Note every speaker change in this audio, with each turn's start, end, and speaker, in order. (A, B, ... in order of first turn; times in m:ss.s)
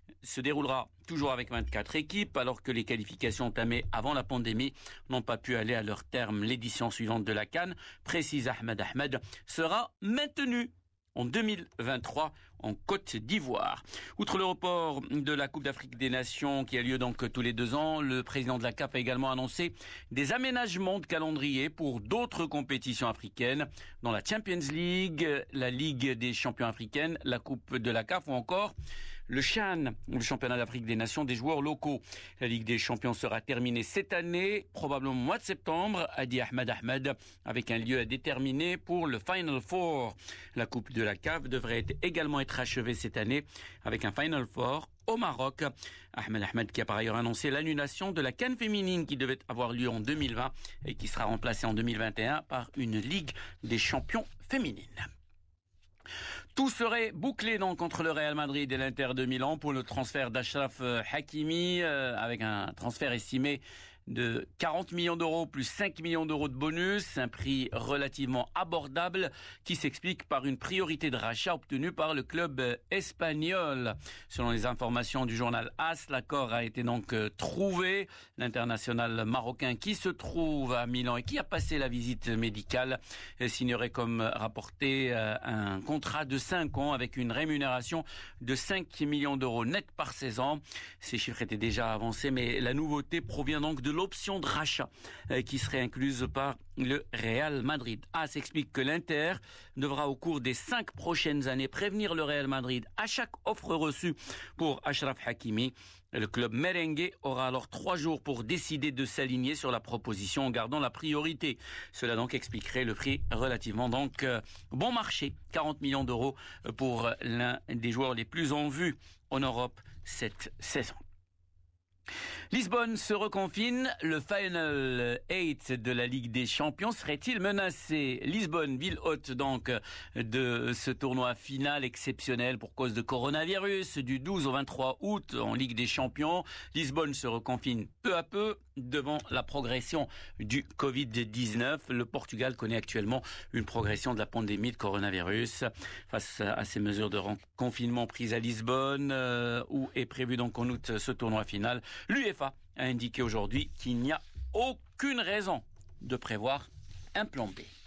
0:00.2-0:28.7 A
0:29.3-0:55.1 A
0:56.6-2:01.0 A
2:02.5-2:37.7 A